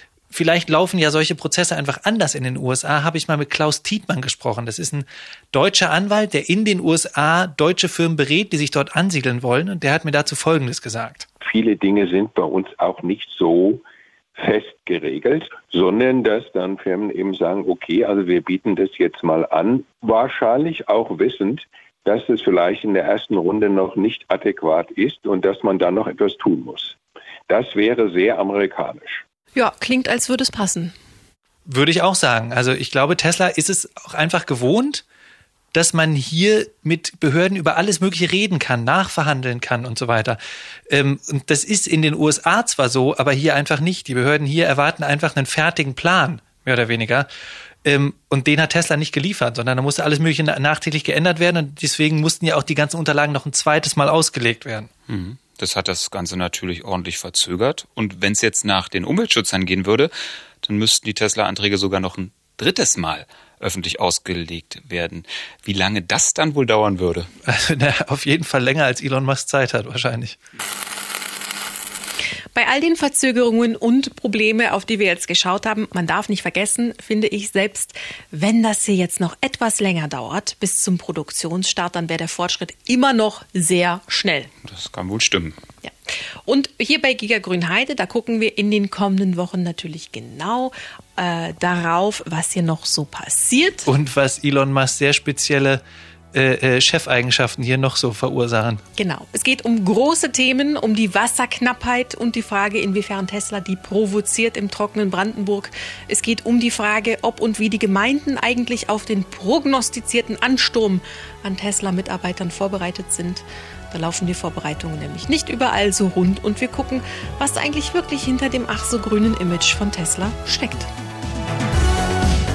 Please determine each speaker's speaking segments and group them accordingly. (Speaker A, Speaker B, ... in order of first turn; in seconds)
Speaker A: 0.3-11.2, 31.6-35.0, 35.7-40.4, 40.9-47.3, 47.8-54.9, 67.4-70.4, 93.9-95.8, 96.3-98.8
Speaker B: 11.4-13.8, 14.4-26.9, 27.5-29.2
Speaker C: 29.6-30.9, 72.5-84.5, 86.5-93.9, 99.0-120.9
Speaker D: 55.1-60.1, 60.6-67.3, 84.6-85.6